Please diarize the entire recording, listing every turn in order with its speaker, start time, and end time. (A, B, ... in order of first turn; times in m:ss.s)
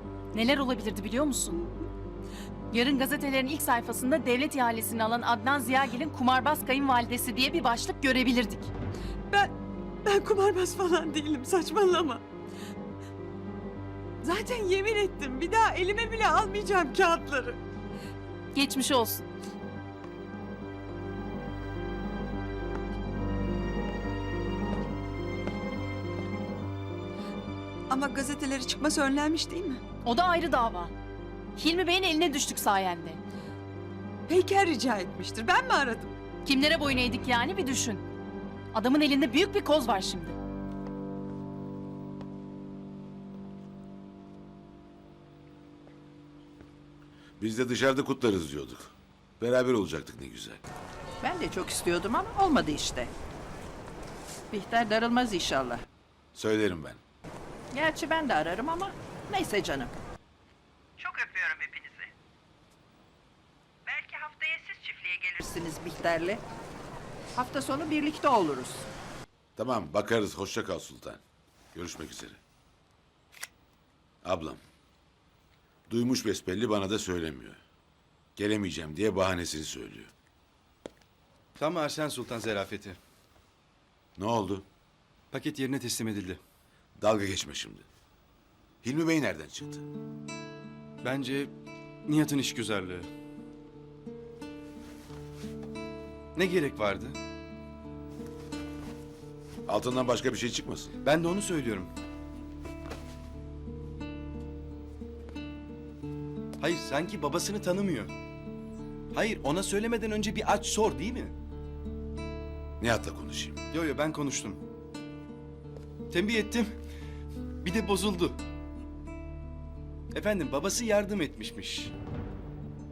0:00.3-0:01.7 A
0:02.7-0:08.7 A
0:09.3-0:12.2 B
0:14.2-0:17.6 B
0:18.5-0:19.2 A
0:27.9-0:29.8 B
0:30.0-0:30.9 A
0:31.6-0:33.2 A
0:34.3-0:36.1 B
0:36.4-0:38.0 A
0:38.7-0:40.4 A
0:47.4-0:50.6 C
0:51.2-0:53.1 D
0:54.5-0:55.8 D
0:56.3-0:57.0 C
0:57.7-0:59.9 D
1:01.0-1:02.1 D
1:03.8-1:06.4 D
1:07.3-1:08.9 D
1:09.6-1:11.2 C
1:11.7-1:12.4 C
1:14.2-1:14.6 C
1:15.9-1:17.6 C
1:18.4-1:20.1 C
1:21.6-1:23.0 E
1:24.2-1:24.6 C
1:25.3-1:26.4 E
1:27.0-1:27.8 C
1:28.8-1:29.8 C
1:31.0-1:31.5 E
1:32.1-1:33.1 E
1:36.3-1:37.2 E
1:39.7-1:41.0 C
1:41.0-1:41.9 E
1:46.6-1:48.1 E
1:49.1-1:51.3 E
1:52.8-1:53.6 C
1:53.7-1:54.6 E
1:56.1-1:56.8 E
1:57.6-1:58.4 E
2:00.1-2:01.9 E